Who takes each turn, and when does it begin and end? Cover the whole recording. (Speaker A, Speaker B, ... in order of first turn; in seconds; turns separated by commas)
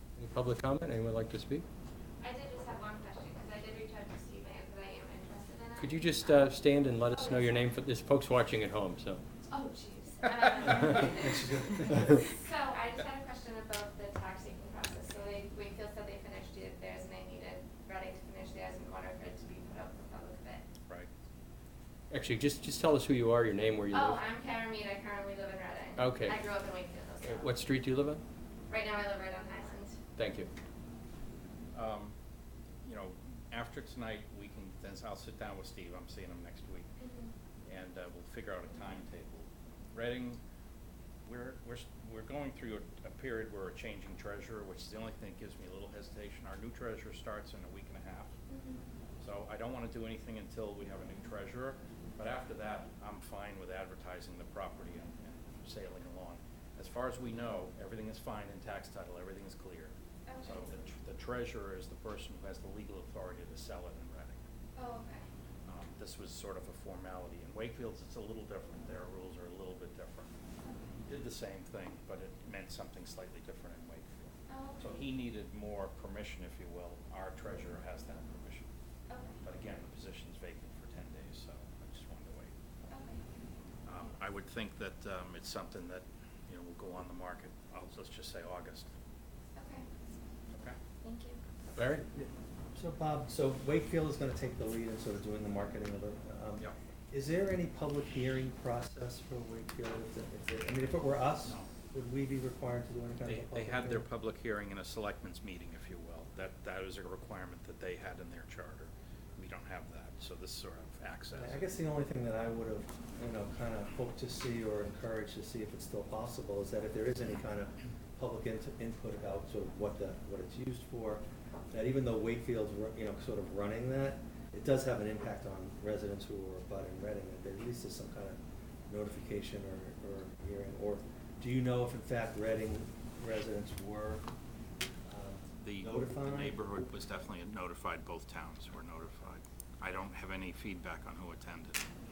Speaker A: 0.2-1.7, Speaker B: 2.2-6.4, Speaker A: 5.8-9.2, Speaker B: 7.0-7.7, Speaker B: 9.5-20.6, Speaker C: 10.8-12.2, Speaker A: 22.1-24.2, Speaker B: 23.9-27.5, Speaker A: 26.0-26.4, Speaker A: 27.2-28.2, Speaker B: 28.7-30.0, Speaker A: 30.2-30.5, Speaker D: 31.7-32.1, Speaker D: 32.8-36.9, Speaker B: 37.0-37.3, Speaker D: 37.7-40.4, Speaker D: 41.2-48.3, Speaker B: 48.5-48.9, Speaker D: 49.2-64.4, Speaker B: 60.3-60.7, Speaker B: 64.8-65.3, Speaker D: 65.7-70.3, Speaker B: 70.6-70.9, Speaker D: 71.0-78.7, Speaker B: 74.5-74.9, Speaker B: 79.1-79.4, Speaker D: 79.4-82.5, Speaker B: 82.9-83.2, Speaker D: 83.9-88.9, Speaker B: 89.5-89.8, Speaker D: 90.5-90.8, Speaker B: 91.0-91.4, Speaker A: 91.8-92.1, Speaker C: 92.1-104.0, Speaker D: 103.2-111.7, Speaker C: 111.3-134.3, Speaker C: 135.1-136.6, Speaker D: 135.6-141.9